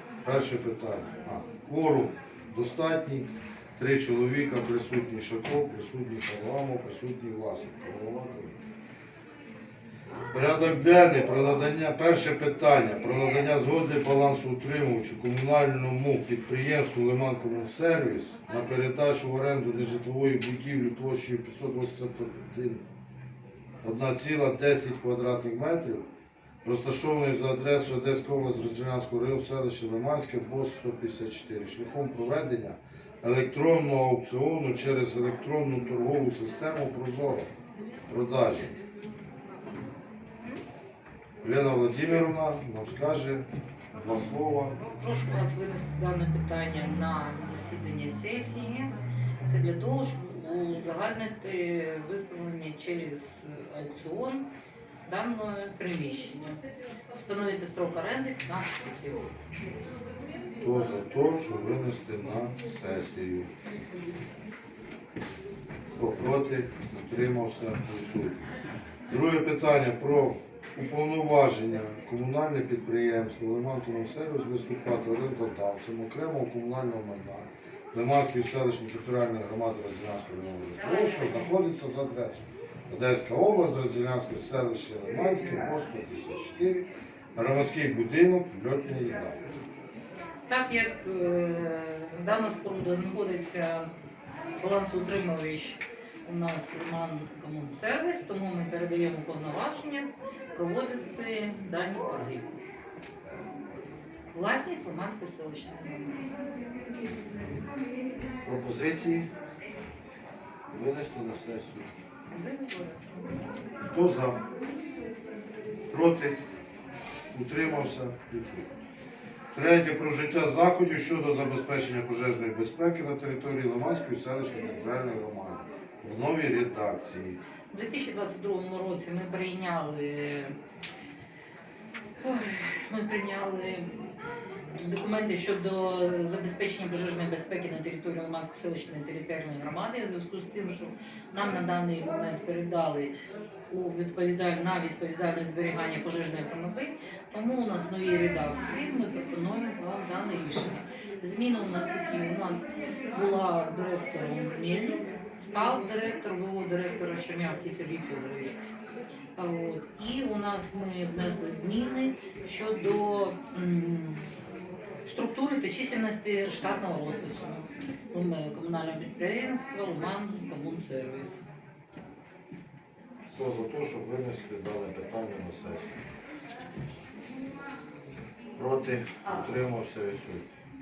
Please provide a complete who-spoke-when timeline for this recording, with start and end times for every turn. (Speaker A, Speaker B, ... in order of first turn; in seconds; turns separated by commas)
Speaker A: 0.2-8.7, Speaker A: 10.3-22.8, Speaker A: 23.8-26.1, Speaker A: 26.6-37.5, Speaker A: 38.1-38.7, Speaker A: 41.4-44.8, Speaker B: 44.9-48.9, Speaker B: 49.5-54.5, Speaker B: 55.0-56.6, Speaker B: 57.1-59.3, Speaker A: 60.6-63.5, Speaker A: 66.0-68.4, Speaker A: 69.1-89.4, Speaker B: 81.0-81.4, Speaker B: 90.5-93.9, Speaker B: 94.6-102.6, Speaker B: 104.3-106.4, Speaker A: 108.4-109.3, Speaker A: 110.7-111.9, Speaker B: 112.3-113.1, Speaker A: 113.9-114.4, Speaker A: 115.9-116.4, Speaker A: 117.3-118.7, Speaker A: 119.5-127.4, Speaker B: 127.7-130.6, Speaker B: 132.2-133.9, Speaker B: 134.7-143.1, Speaker B: 143.7-158.6, Speaker B: 159.4-164.3, Speaker B: 165.1-171.4, Speaker A: 173.3-176.1, Speaker A: 178.6-180.4